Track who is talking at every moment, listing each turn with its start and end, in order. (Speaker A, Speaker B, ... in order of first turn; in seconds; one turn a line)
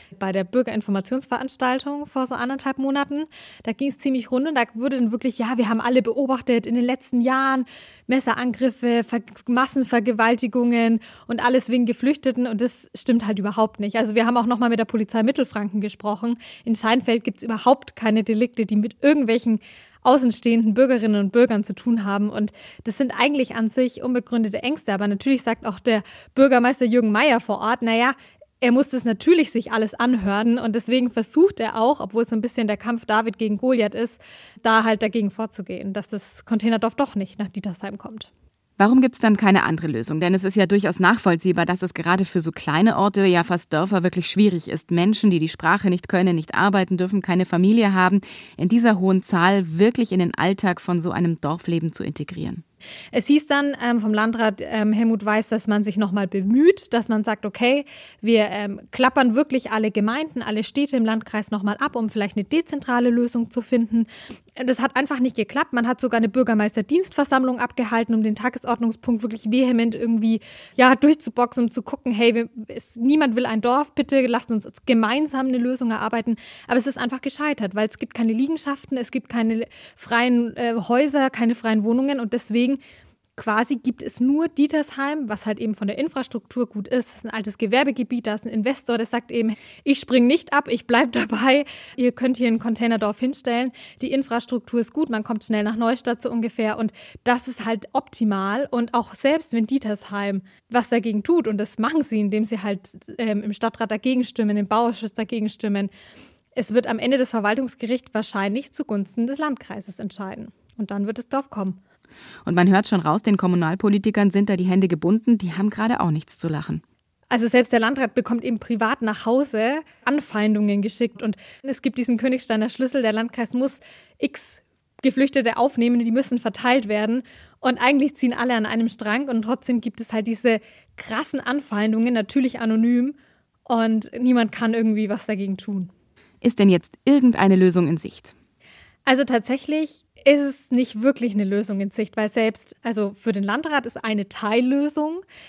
Speaker A: 0.2-38.3
Speaker B: 38.8-52.6
Speaker A: 53.1-82.8
Speaker A: 83.4-105.9
Speaker A: 106.5-111.8
Speaker B: 112.5-116.8
Speaker A: 117.3-133.2
Speaker A: 133.7-135.9
Speaker B: 136.4-138.3
Speaker A: 139.1-145.2